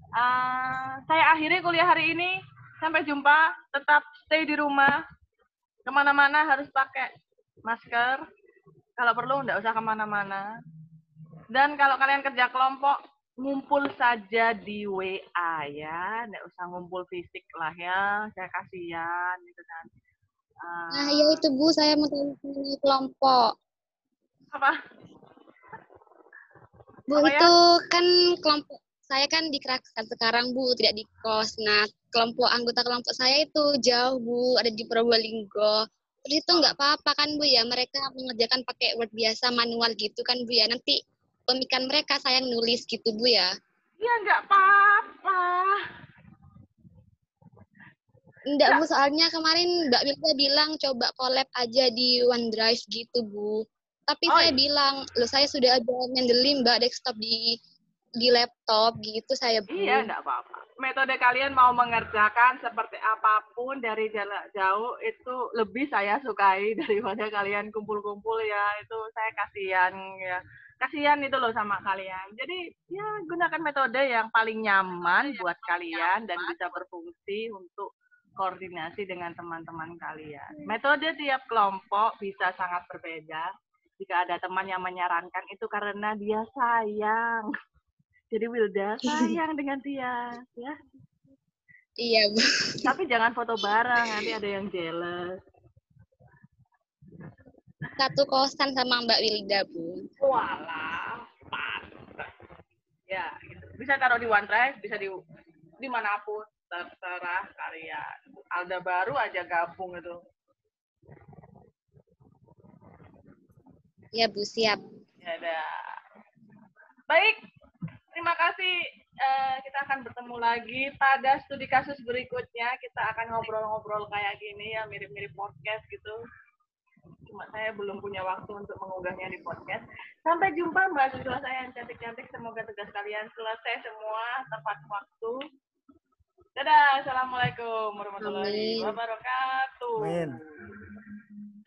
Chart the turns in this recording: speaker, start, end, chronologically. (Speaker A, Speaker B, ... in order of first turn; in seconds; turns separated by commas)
Speaker A: 0.2-5.0, Speaker A: 5.9-7.1, Speaker A: 7.7-8.2, Speaker A: 9.0-10.4, Speaker A: 11.5-19.9, Speaker A: 20.6-21.4, Speaker B: 20.9-23.6, Speaker B: 27.1-41.0, Speaker A: 27.1-27.5, Speaker B: 41.5-43.5, Speaker A: 44.0-45.8, Speaker B: 48.5-57.6, Speaker A: 54.3-54.5, Speaker B: 58.2-60.1, Speaker A: 59.7-87.5, Speaker A: 88.3-90.8, Speaker B: 92.0-92.8, Speaker A: 92.8-95.4, Speaker B: 98.0-100.1, Speaker A: 100.2-102.3, Speaker A: 103.1-105.2, Speaker A: 105.8-110.2, Speaker B: 114.1-114.8, Speaker A: 115.2-115.7, Speaker A: 117.1-117.4, Speaker A: 118.1-126.2, Speaker A: 127.3-135.4, Speaker A: 136.6-140.4, Speaker B: 138.2-138.9